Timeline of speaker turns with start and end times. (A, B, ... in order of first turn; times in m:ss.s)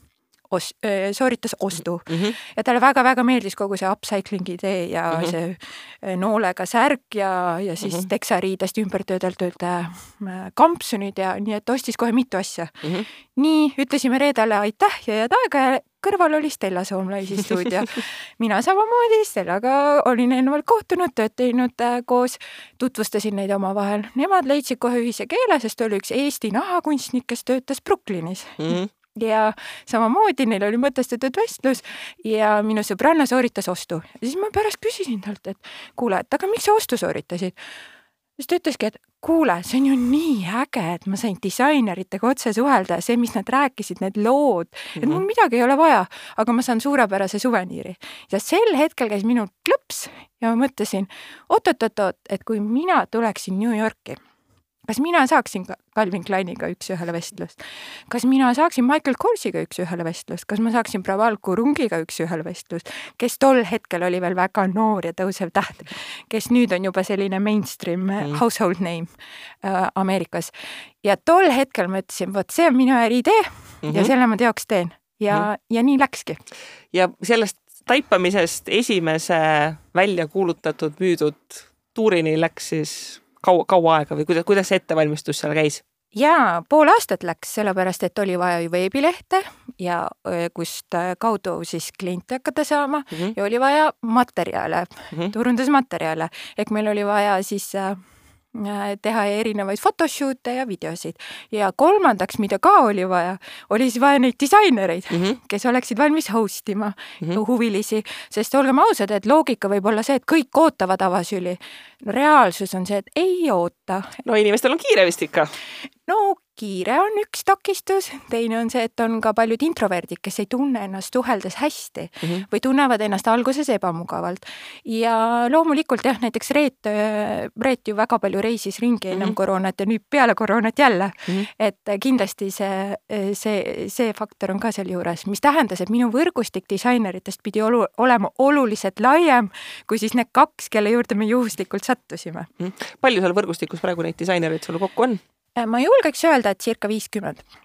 0:00.5-0:37.6 A
0:02.1-0:02.3 B
0:28.6-0:28.9 B
0:38.4-0:54.2 A
0:45.0-0:45.2 B
0:54.9-1:09.1 A
1:09.6-1:16.4 A
1:13.8-1:14.1 B
1:16.9-1:25.8 B
1:26.1-1:38.0 A
1:38.5-1:54.2 A
1:45.1-1:45.4 B
1:54.2-1:55.5 B
1:56.1-2:22.5 A
2:22.6-2:25.2 B
2:25.6-2:27.4 A